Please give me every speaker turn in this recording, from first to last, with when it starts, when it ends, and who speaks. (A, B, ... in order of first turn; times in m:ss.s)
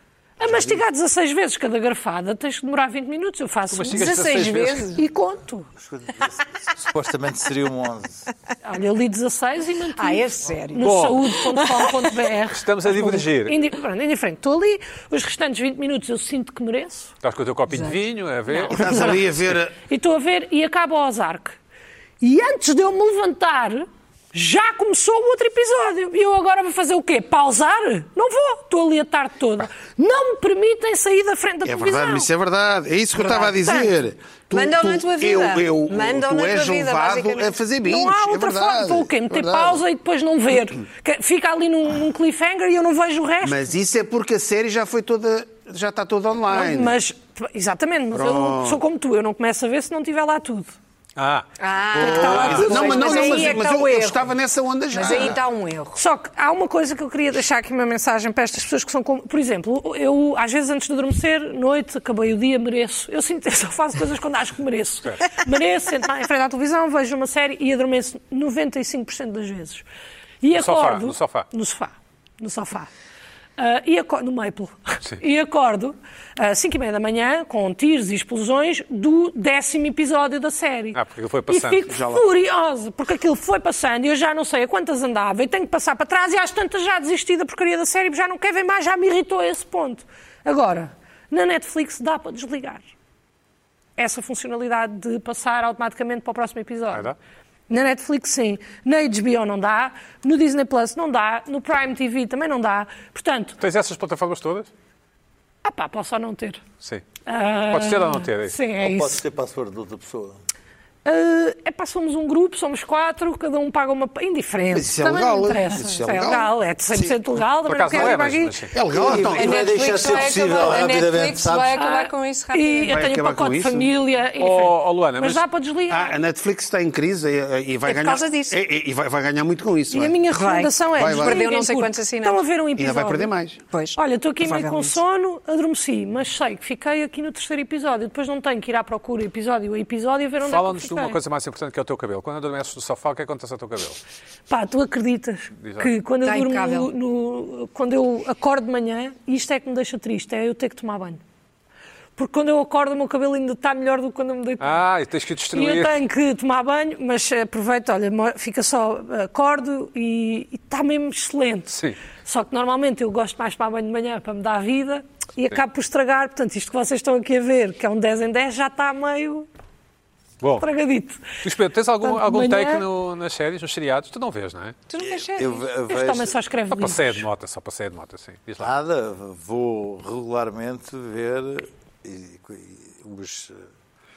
0:00.4-0:04.1 A
0:03.7-0:05.0 B
0:03.9-0:05.0 C
0:05.0-0:05.7 A
0:05.8-0:08.3 D
0:08.6-0:17.1 A
0:10.0-0:12.1 C
0:10.8-0:11.2 B
0:12.5-0:13.6 B
0:17.2-0:19.3 B
0:17.7-0:18.0 C
0:18.7-0:19.8 E
0:19.9-0:21.6 A
0:22.2-0:32.3 A
0:31.6-0:39.8 E
0:33.2-0:33.9 C
0:34.5-0:37.6 C
0:37.8-0:43.6 A
0:43.4-0:47.0 E
0:46.5-0:50.7 A
0:48.1-0:48.8 E
0:51.2-0:53.5 B
0:51.6-0:54.3 C
0:52.0-0:55.4 E
0:54.9-0:56.0 C
0:56.0-1:09.8 A
1:05.0-1:05.3 B
1:10.4-1:12.9 A
1:10.5-1:11.5 B
1:13.6-1:32.8 A
1:20.9-1:21.9 B
1:21.9-1:22.3 E
1:34.0-1:37.1 A
1:36.9-1:37.2 B
1:37.7-1:43.6 A
1:43.6-1:44.7 B
1:45.6-1:46.6 A
1:47.3-1:49.2 A
1:47.7-1:48.6 B
1:48.8-1:50.4 D
1:51.0-1:58.6 A
1:54.7-1:57.2 E
1:57.7-1:58.8 B
1:58.7-2:00.8 E
1:58.9-2:01.8 D
1:59.3-2:03.1 C
2:01.8-2:06.2 A
2:02.9-2:03.9 E
2:04.4-2:05.4 B
2:05.9-2:10.2 E
2:07.8-2:08.6 C
2:09.9-2:13.3 A
2:10.3-2:12.4 C
2:10.9-2:11.5 E
2:12.8-2:13.6 E
2:13.7-2:15.0 C
2:14.0-2:21.2 A
2:20.4-2:24.0 B
2:24.5-2:31.2 A
2:25.6-2:25.9 B
2:26.2-2:26.9 C
2:32.2-2:34.8 A
2:34.6-2:36.0 B
2:35.5-2:49.5 A
2:50.4-2:50.7 B
2:50.6-2:51.4 A
2:51.4-2:54.8 B
2:52.0-2:52.8 A
2:54.9-2:55.7 C
2:55.0-2:56.4 D
2:55.9-2:57.2 A
2:56.7-2:58.7 B
2:58.6-3:03.7 D